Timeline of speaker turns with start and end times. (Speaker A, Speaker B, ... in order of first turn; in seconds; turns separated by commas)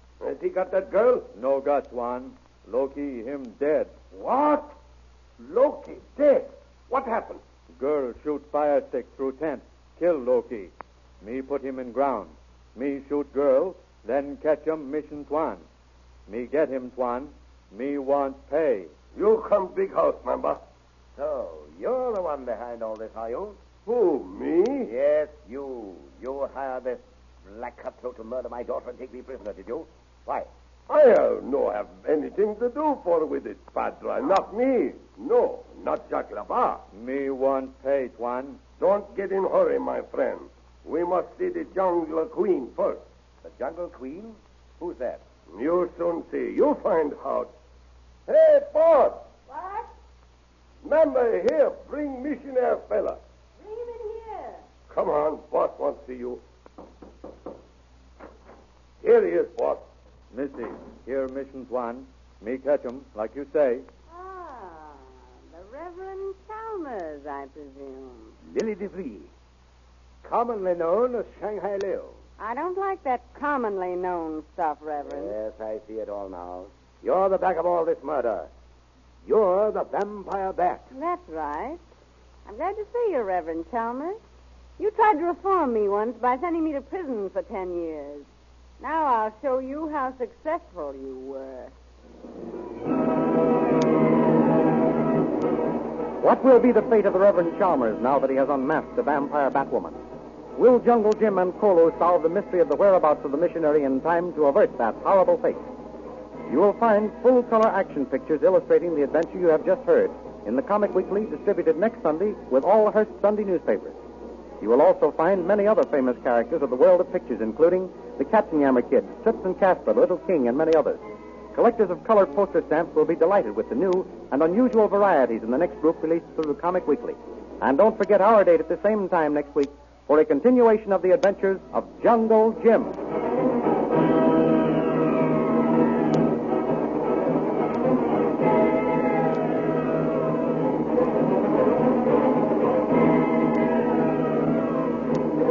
Speaker A: 0.2-1.3, Speaker B: 1.3-3.9, Speaker A: 4.1-4.7, Speaker A: 5.4-7.4, Speaker B: 7.7-15.6, Speaker B: 16.3-18.9, Speaker A: 19.1-20.6, Speaker C: 21.2-23.6, Speaker A: 23.9-25.0, Speaker C: 24.9-30.5, Speaker A: 30.9-36.8, Speaker B: 36.9-38.6, Speaker A: 38.8-43.0, Speaker C: 43.4-45.2, Speaker A: 45.5-47.5, Speaker A: 48.3-49.2, Speaker D: 49.5-49.9, Speaker A: 50.8-53.2, Speaker D: 53.6-54.6, Speaker A: 54.9-56.4, Speaker A: 59.0-59.8, Speaker B: 60.3-63.9, Speaker D: 64.1-68.3, Speaker C: 68.5-69.3, Speaker C: 70.2-72.2, Speaker D: 72.4-75.3, Speaker C: 75.0-78.5, Speaker C: 79.2-80.8, Speaker D: 80.9-81.8, Speaker D: 82.5-84.2, Speaker D: 84.8-88.3, Speaker D: 88.8-91.7, Speaker E: 96.2-100.0, Speaker E: 100.5-105.6, Speaker E: 106.5-114.0, Speaker E: 114.6-133.0